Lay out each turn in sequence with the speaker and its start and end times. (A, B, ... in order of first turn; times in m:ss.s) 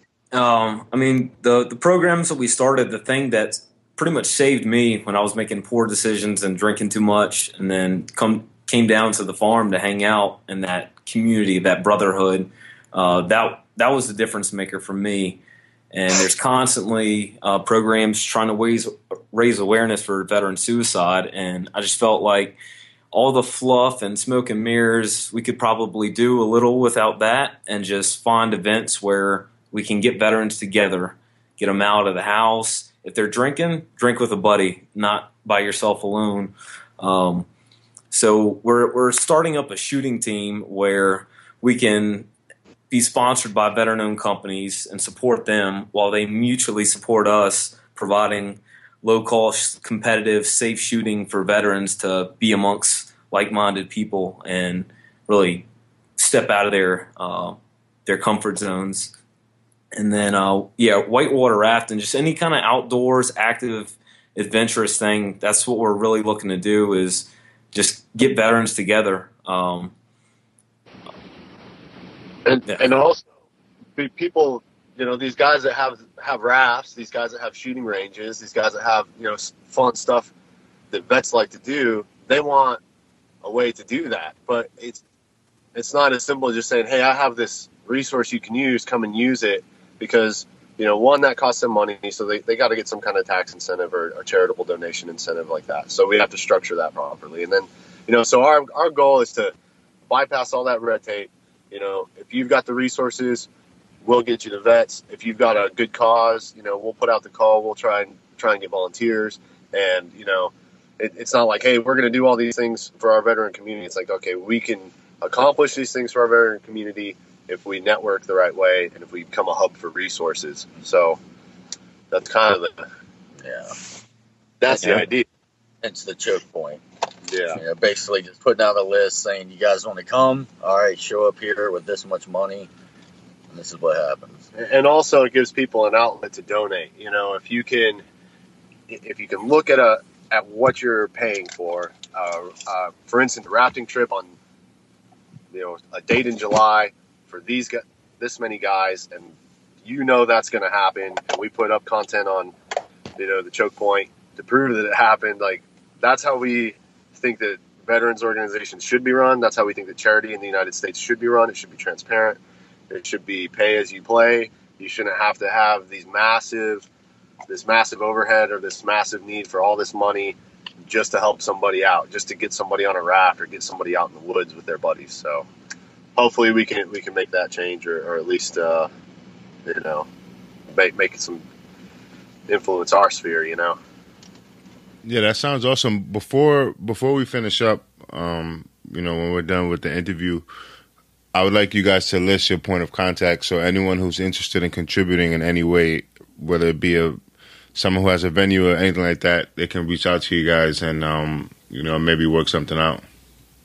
0:00.3-0:15.4 A
0:15.9-0:22.6 A
0:23.1-0:37.5 A
0:38.1-0:42.3 A
0:42.9-0:55.6 A
0:56.2-0:59.1 A
0:59.9-1:09.9 A
1:12.4-1:13.3 B
1:14.0-1:20.3 B
1:20.9-1:22.8 B
1:23.4-1:25.0 B
1:25.7-1:39.5 B
1:40.1-1:43.5 B
1:44.0-2:01.2 B
2:02.1-2:02.7 B
2:03.4-2:03.7 C
2:04.6-2:05.2 B
2:05.8-2:06.8 C
2:07.3-2:07.6 B
2:07.5-2:12.7 C
2:13.5-2:14.4 C
2:14.5-2:18.0 B
2:18.9-2:24.3 B
2:25.5-2:32.5 B
2:33.2-2:46.9 B
2:47.5-2:55.4 B
2:56.2-2:58.9 B
2:59.6-3:00.1 B
3:00.7-3:01.4 B
3:02.5-3:03.8 B
3:05.0-3:10.4 D
3:11.3-3:17.2 D
3:17.7-3:23.0 D